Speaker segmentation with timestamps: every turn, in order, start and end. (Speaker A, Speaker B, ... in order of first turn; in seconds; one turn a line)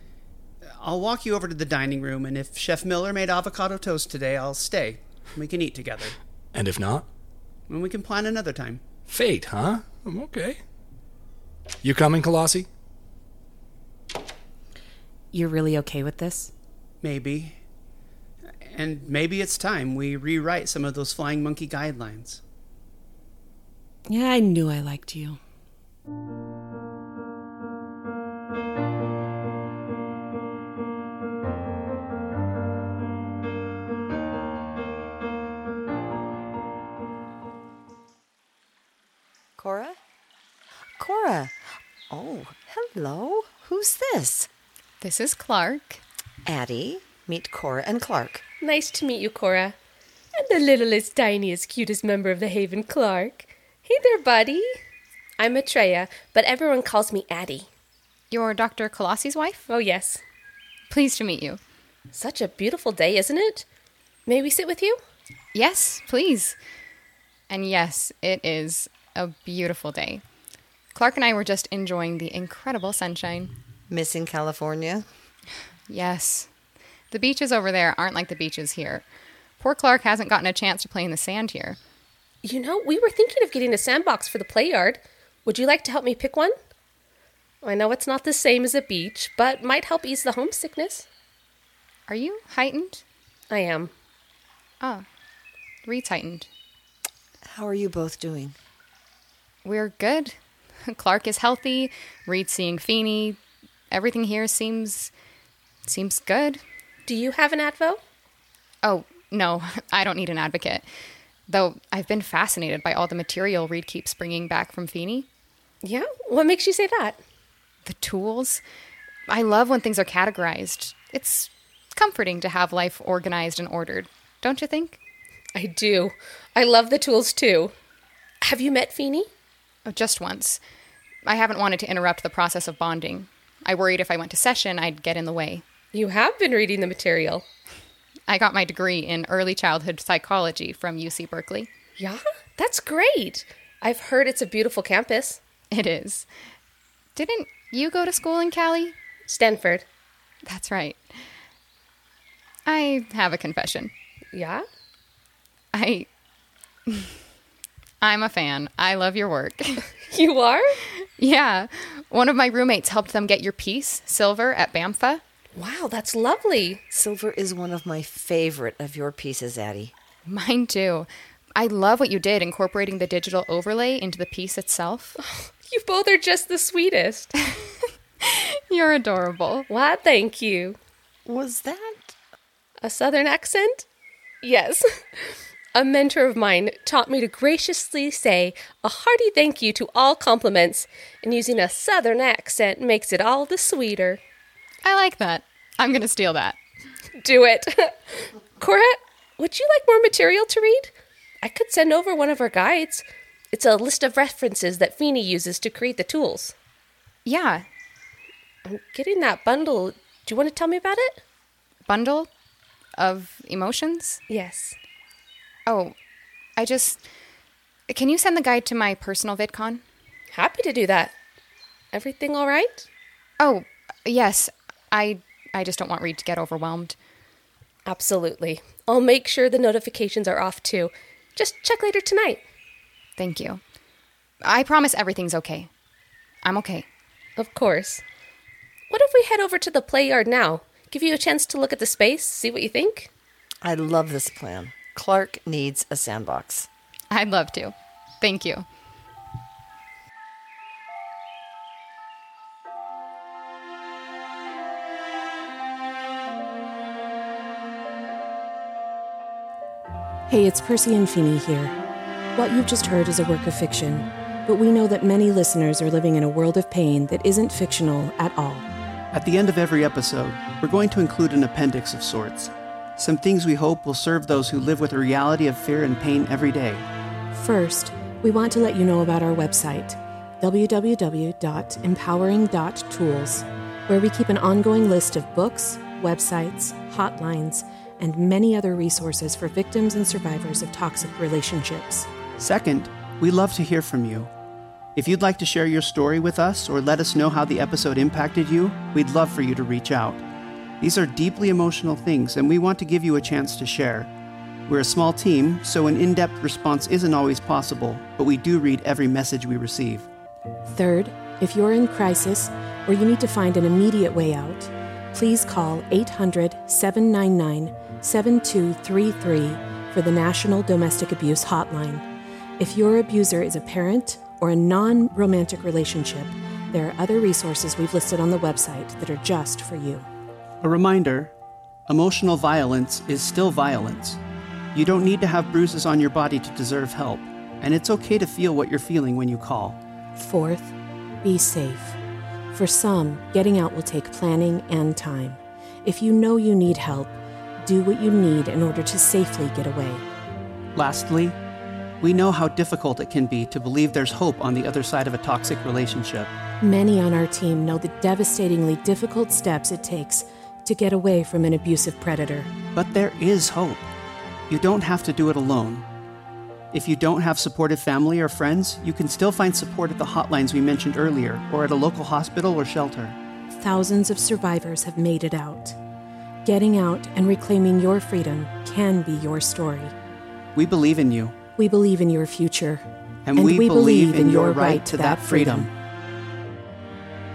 Speaker A: 0.7-6.2
Speaker B: 6.5-7.1
Speaker A: 7.7-8.8
Speaker B: 9.1-10.6
Speaker B: 11.8-12.7
Speaker C: 15.3-16.5
Speaker A: 17.0-17.6
Speaker A: 18.6-22.4
Speaker C: 24.1-25.4
Speaker D: 39.6-40.0
Speaker D: 41.0-44.5
Speaker E: 45.0-46.0
Speaker D: 46.4-48.4
Speaker F: 48.6-49.8
Speaker F: 50.3-54.8
Speaker F: 55.4-57.7
Speaker E: 58.3-59.6
Speaker F: 59.7-60.2
Speaker E: 60.9-61.6
Speaker F: 62.1-63.6
Speaker F: 64.3-65.0
Speaker E: 65.5-66.5
Speaker E: 67.5-70.2
Speaker E: 70.9-73.5
Speaker D: 73.9-75.0
Speaker E: 75.9-76.5
Speaker E: 77.1-79.0
Speaker E: 79.6-81.8
Speaker F: 82.4-86.5
Speaker F: 87.6-91.1
Speaker E: 92.1-93.0
Speaker F: 93.5-93.9
Speaker E: 94.8-95.0
Speaker E: 95.8-96.5
Speaker D: 97.5-98.5
Speaker E: 99.6-100.3
Speaker E: 100.8-103.4
Speaker E: 103.9-105.1
Speaker E: 105.8-106.6
Speaker F: 107.1-108.0
Speaker E: 108.8-110.8
Speaker E: 111.5-115.3
Speaker F: 115.8-117.2
Speaker E: 117.8-118.6
Speaker E: 119.3-125.0
Speaker F: 125.5-127.7
Speaker F: 128.4-129.3
Speaker E: 129.8-130.6
Speaker E: 131.2-135.6
Speaker F: 135.9-137.4
Speaker E: 138.3-141.7
Speaker F: 142.0-145.4
Speaker E: 145.7-146.3
Speaker E: 147.1-148.9
Speaker F: 149.3-149.8
Speaker E: 150.4-151.0
Speaker E: 152.7-153.9
Speaker F: 154.3-154.6
Speaker E: 155.7-156.1
Speaker E: 158.0-159.8
Speaker F: 160.0-160.8
Speaker E: 161.0-165.2
Speaker F: 165.5-166.8
Speaker D: 166.9-169.9
Speaker E: 170.2-175.2
Speaker F: 175.2-177.3
Speaker E: 178.2-179.7
Speaker F: 179.7-180.8
Speaker D: 181.2-182.1
Speaker F: 182.8-183.8
Speaker F: 184.4-194.2
Speaker E: 194.8-196.6
Speaker F: 197.2-206.5
Speaker E: 207.2-207.6
Speaker F: 208.6-211.2
Speaker E: 211.8-212.3
Speaker E: 213.0-214.2
Speaker F: 214.3-214.8
Speaker E: 215.7-215.9
Speaker E: 216.6-217.0
Speaker E: 217.9-219.8
Speaker F: 220.3-221.1
Speaker F: 221.9-222.9
Speaker E: 223.4-226.9
Speaker F: 227.8-232.4
Speaker E: 233.2-233.6
Speaker E: 234.4-235.7
Speaker E: 236.4-236.8
Speaker F: 237.4-238.0
Speaker F: 238.9-243.1
Speaker D: 243.6-246.7
Speaker E: 247.1-248.7
Speaker C: 260.3-261.8
Speaker C: 262.3-268.7
Speaker A: 269.1-276.9
Speaker C: 277.3-292.1
Speaker A: 292.4-294.3
Speaker A: 294.9-300.2
Speaker A: 300.8-304.1
Speaker A: 304.7-310.1
Speaker C: 310.7-322.0
Speaker C: 322.6-330.1
Speaker A: 330.6-331.3
Speaker A: 331.9-334.2
Speaker A: 334.7-339.8
Speaker C: 340.1-342.0
Speaker C: 342.5-350.0
Speaker A: 350.7-351.4
Speaker A: 352.0-356.3
Speaker C: 356.6-362.5
Speaker A: 362.7-363.9
Speaker A: 364.5-365.9
Speaker A: 366.7-373.2
Speaker C: 373.5-375.8
Speaker C: 376.4-379.9
Speaker A: 380.5-381.3
Speaker C: 381.6-385.7
Speaker A: 383.2-385.7